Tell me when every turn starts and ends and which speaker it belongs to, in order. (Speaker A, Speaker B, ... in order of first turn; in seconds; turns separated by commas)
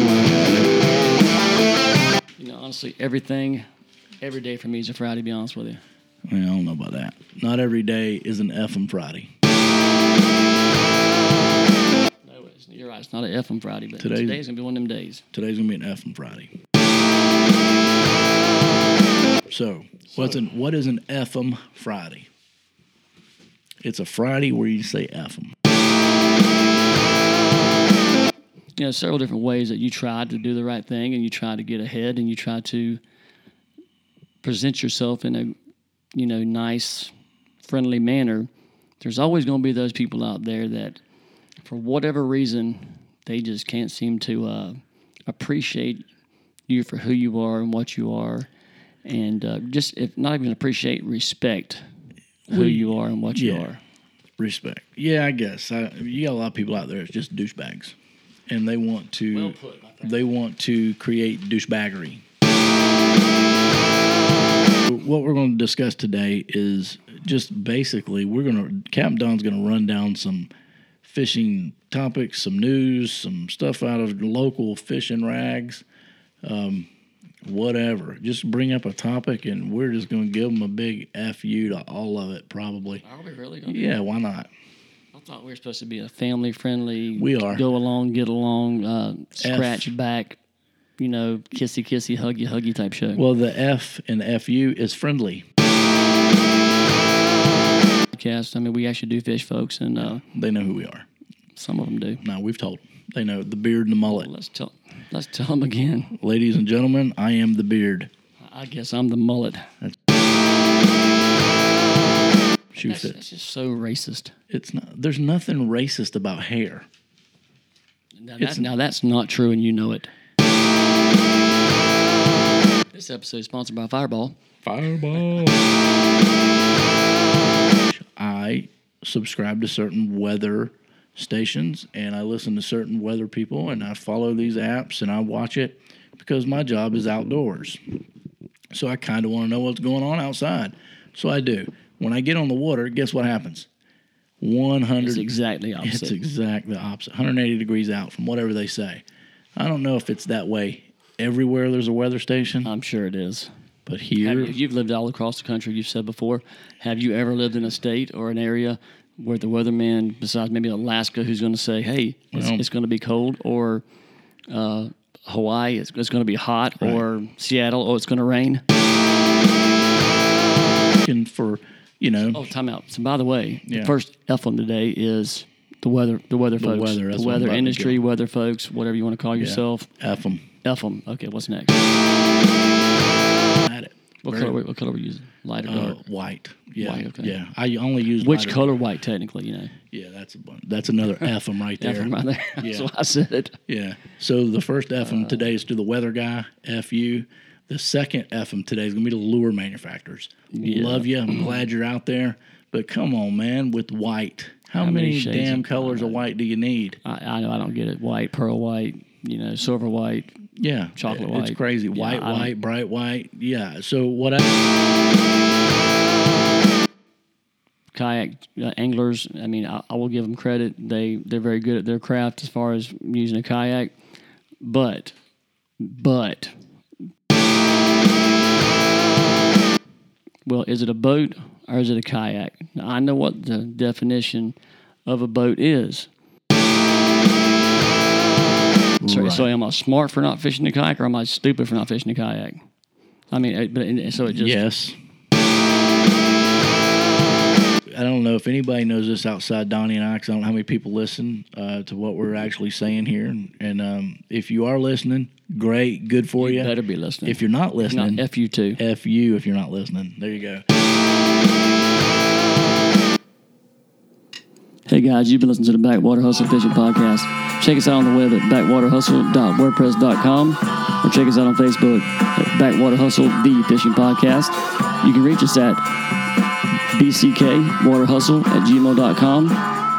Speaker A: 2.4-3.6, Speaker A: 4.2-5.8, Speaker B: 6.3-9.3, Speaker A: 12.2-15.2, Speaker B: 14.0-14.4, Speaker B: 15.3-16.5, Speaker B: 19.5-22.3, Speaker A: 20.1-20.4, Speaker B: 23.8-25.5, Speaker A: 28.8-33.0, Speaker A: 34.4-35.5, Speaker A: 36.1-37.1, Speaker A: 37.6-41.0, Speaker A: 41.6-46.0, Speaker A: 46.7-48.5, Speaker A: 49.0-51.8, Speaker A: 52.5-53.8, Speaker B: 52.5-53.7, Speaker B: 54.4-58.0, Speaker B: 58.5-62.2, Speaker A: 59.3-60.2, Speaker B: 64.8-70.5, Speaker B: 71.0-75.8, Speaker B: 76.4-76.9, Speaker B: 77.4-83.0, Speaker A: 83.0-84.0, Speaker B: 83.7-84.5, Speaker A: 85.1-90.4, Speaker B: 87.1-87.7, Speaker B: 89.4-89.9, Speaker A: 91.0-93.2, Speaker B: 93.1-95.4, Speaker A: 98.1-100.2, Speaker B: 100.0-101.0, Speaker A: 101.5-102.2, Speaker B: 102.2-104.3, Speaker A: 104.1-106.1, Speaker B: 106.2-108.1, Speaker A: 108.5-109.7, Speaker B: 112.7-113.2, Speaker A: 112.7-114.3, Speaker B: 114.5-116.8, Speaker A: 118.2-120.1, Speaker B: 118.4-118.7, Speaker A: 122.9-124.4, Speaker B: 124.6-125.6, Speaker B: 127.8-137.8, Speaker B: 138.7-143.7, Speaker B: 144.4-145.3, Speaker A: 145.0-146.2, Speaker B: 145.8-149.0, Speaker B: 149.6-152.7, Speaker A: 152.6-153.5, Speaker B: 153.8-154.6, Speaker A: 154.2-163.8, Speaker B: 162.3-162.6, Speaker A: 164.5-168.6, Speaker B: 171.0-172.5, Speaker A: 172.3-179.9, Speaker B: 173.7-173.9, Speaker B: 176.6-178.0, Speaker B: 179.4-180.4, Speaker A: 180.6-181.9, Speaker B: 183.6-184.6, Speaker A: 184.2-186.0, Speaker B: 185.6-188.7, Speaker A: 186.8-187.3, Speaker A: 188.2-189.7, Speaker B: 189.9-192.9, Speaker A: 191.2-193.6, Speaker B: 193.7-207.0, Speaker A: 195.0-195.5, Speaker A: 200.5-201.7, Speaker A: 204.8-206.3, Speaker A: 207.0-210.4, Speaker B: 210.6-214.5, Speaker A: 210.9-212.5, Speaker A: 217.9-223.9, Speaker A: 224.6-225.1, Speaker A: 225.8-226.6, Speaker A: 230.4-236.1, Speaker B: 239.0-239.5, Speaker A: 239.0-242.6, Speaker A: 243.3-244.6, Speaker B: 244.3-244.9, Speaker B: 247.9-256.7, Speaker A: 256.4-258.8, Speaker B: 257.2-258.2, Speaker B: 258.8-260.6, Speaker A: 264.9-275.9, Speaker A: 276.9-279.6